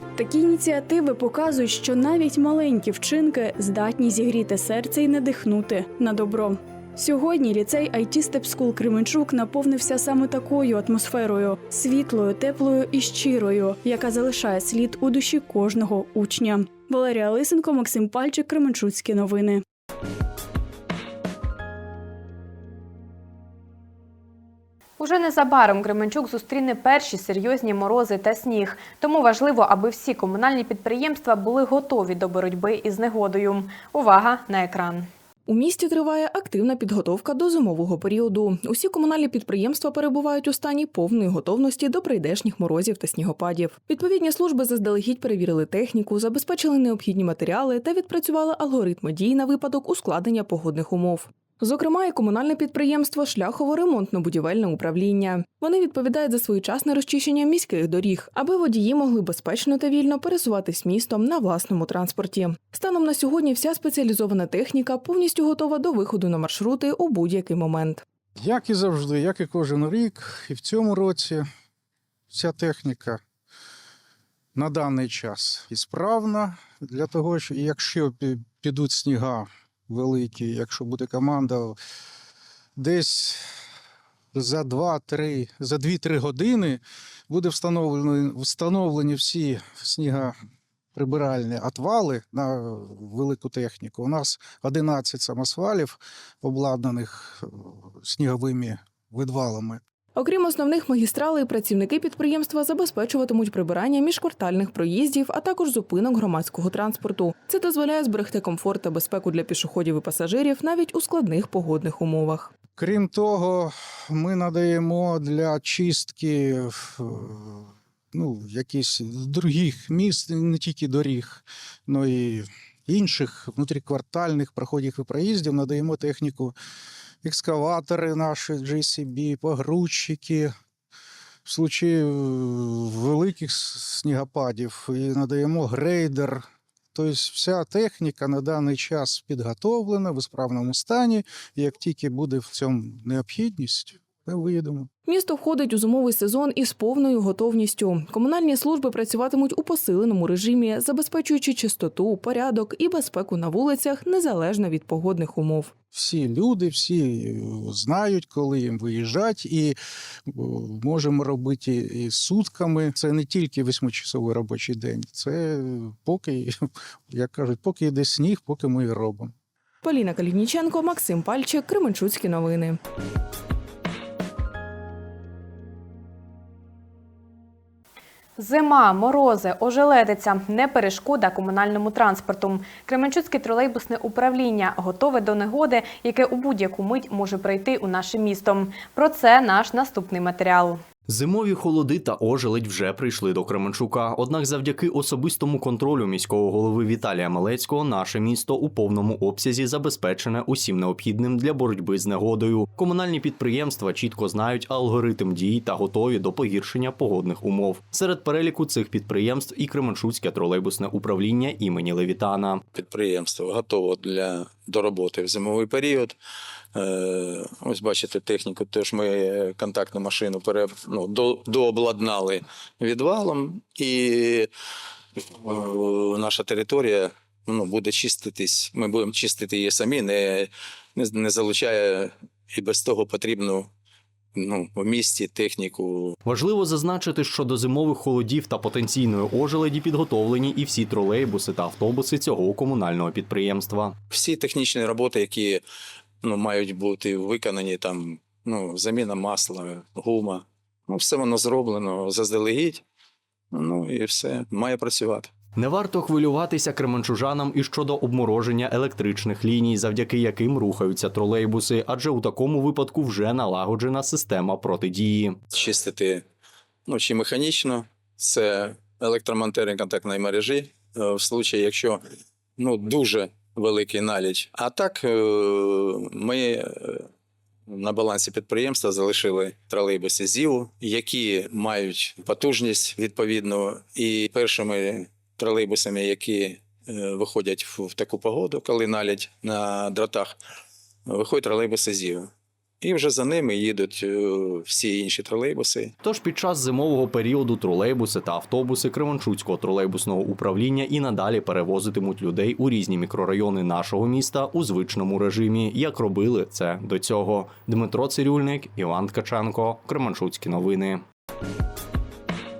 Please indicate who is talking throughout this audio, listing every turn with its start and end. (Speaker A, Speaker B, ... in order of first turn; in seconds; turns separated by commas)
Speaker A: 0.2-19.6, Speaker B: 25.0-35.1, Speaker C: 35.5-68.0, Speaker D: 68.4-71.5, Speaker D: 72.3-73.2, Speaker D: 74.5-81.8, Speaker D: 82.8-83.5, Speaker D: 84.3-90.3, Speaker D: 90.9-99.8, Speaker C: 100.2-112.5, Speaker D: 112.8-126.5, Speaker D: 127.2-130.5, Speaker D: 131.4-144.9, Speaker C: 145.1-155.7, Speaker D: 155.9-169.3, Speaker C: 169.8-172.8, Speaker B: 178.4-190.8, Speaker E: 191.1-212.6, Speaker F: 212.7-216.2, Speaker F: 216.7-224.5, Speaker F: 225.2-233.7, Speaker F: 234.3-236.2, Speaker E: 236.2-244.0, Speaker F: 244.1-245.6, Speaker F: 246.2-252.8, Speaker F: 253.5-255.3, Speaker E: 255.6-265.4, Speaker F: 265.5-266.2, Speaker F: 266.9-272.0, Speaker F: 272.6-277.1, Speaker F: 277.7-290.4, Speaker F: 291.1-292.3, Speaker F: 292.8-295.9, Speaker E: 296.0-311.0